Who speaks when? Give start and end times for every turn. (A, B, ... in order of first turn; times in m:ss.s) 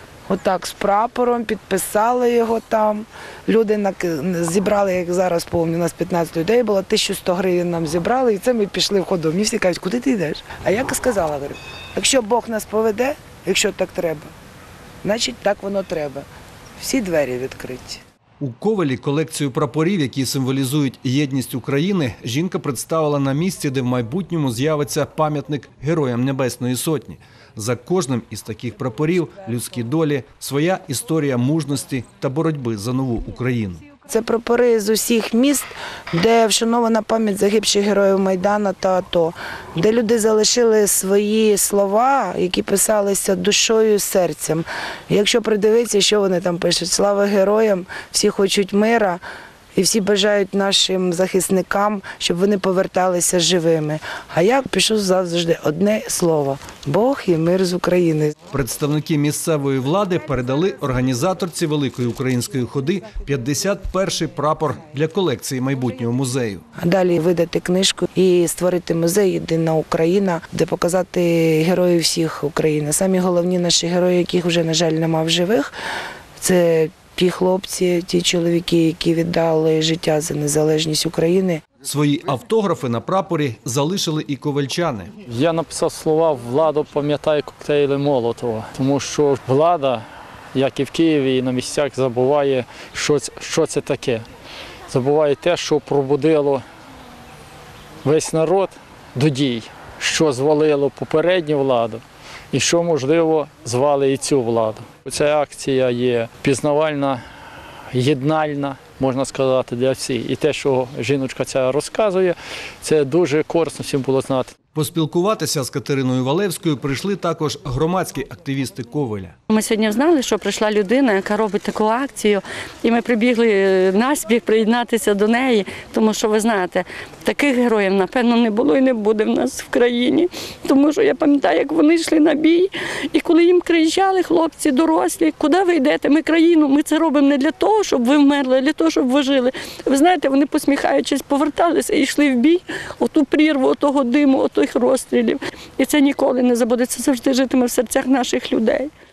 0:00.3-0:14.3 A
0:15.0-0:16.2 A
0:16.8-0:18.0 A
0:18.4-0:33.8 B
0:34.1-0:49.2 A
0:49.7-0:58.3 A
0:58.5-1:06.6 B
1:06.8-1:15.7 A
1:16.4-1:21.6 A
1:21.8-1:25.1 B
1:25.3-1:30.0 C
1:30.5-1:34.2 C
1:34.9-1:36.6 C
1:38.0-1:47.2 C
1:47.9-1:54.5 C
1:54.7-1:59.3 B
1:59.5-2:28.9 D